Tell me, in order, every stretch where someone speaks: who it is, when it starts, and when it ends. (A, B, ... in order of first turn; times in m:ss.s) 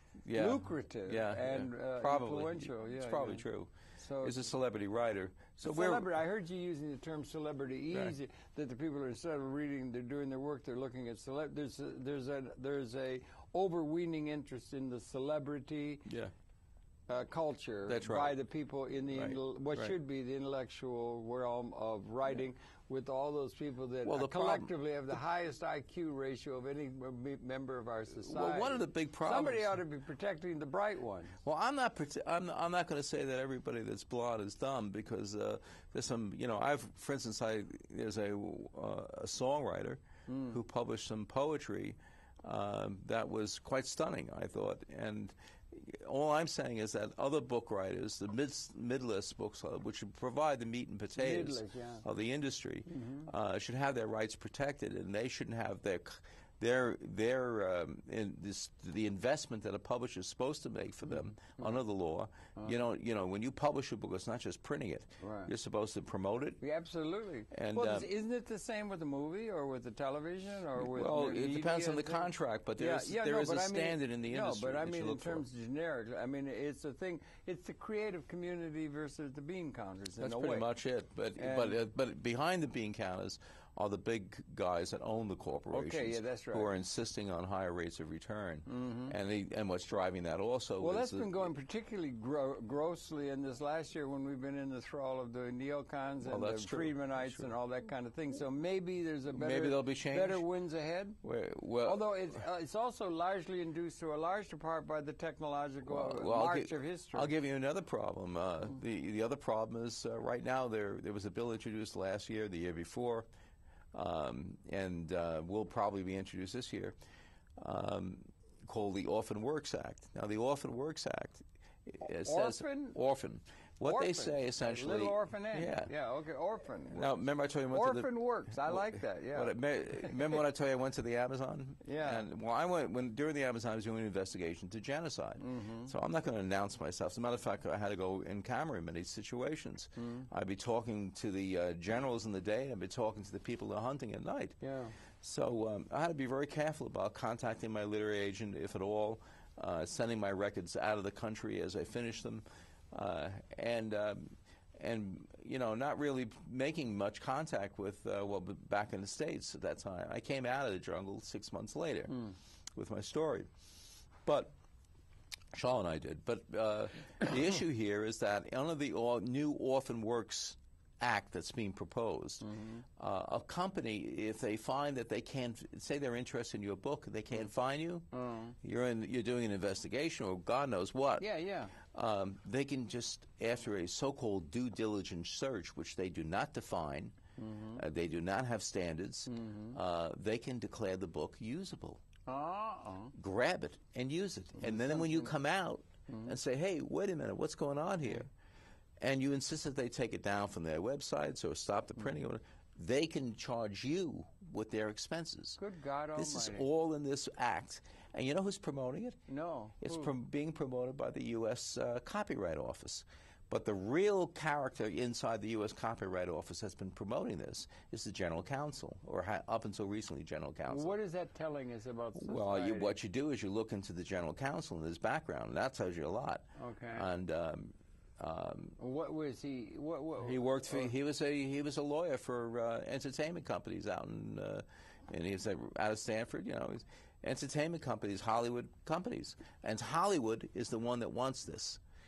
0:00.2-0:06.1 A
0:00.3-0:03.4 B
0:04.0-0:04.5 B
0:05.6-0:16.1 B
0:16.0-0:16.3 A
0:17.1-0:31.4 B
0:17.9-0:18.4 A
0:19.1-0:19.9 A
0:24.0-0:24.7 A
0:28.2-0:29.8 A
0:31.4-1:06.6 A
0:40.3-0:40.6 B
0:51.2-0:52.0 B
0:52.9-0:53.3 B
1:05.2-1:05.5 B
1:06.6-1:20.7 B
1:07.5-1:08.1 A
1:10.8-1:15.4 A
1:20.2-1:31.5 A
1:21.4-1:21.8 B
1:25.7-1:26.7 B
1:28.6-1:29.1 B
1:30.8-1:41.2 B
1:36.2-1:37.5 A
1:39.3-1:40.4 A
1:41.2-1:42.2 A
1:41.8-1:47.3 B
1:45.9-1:53.3 A
1:53.9-1:56.9 A
1:57.6-2:05.9 A
2:02.2-2:03.0 B
2:03.8-2:07.1 B
2:06.9-2:43.5 A
2:07.7-2:09.5 B
2:11.8-2:12.2 B
2:15.4-2:15.9 B
2:20.0-2:20.3 B
2:24.6-2:25.0 B
2:44.2-2:44.5 A
2:45.5-2:58.1 A
2:52.4-2:52.8 B
2:58.1-2:58.5 B
2:58.6-3:07.2 A
3:01.2-3:01.7 B
3:07.4-3:07.8 B
3:07.7-3:12.0 A
3:09.3-3:09.8 B
3:12.2-3:13.1 B
3:13.1-3:18.3 A
3:14.6-3:15.3 B
3:19.0-3:25.6 A
3:25.6-3:26.6 B
3:26.1-3:29.2 A
3:29.3-3:30.1 B
3:29.8-3:40.9 A
3:40.7-3:43.0 B
3:42.1-3:48.8 A
3:46.6-3:47.0 B
3:48.8-3:50.9 B
3:50.2-4:01.8 A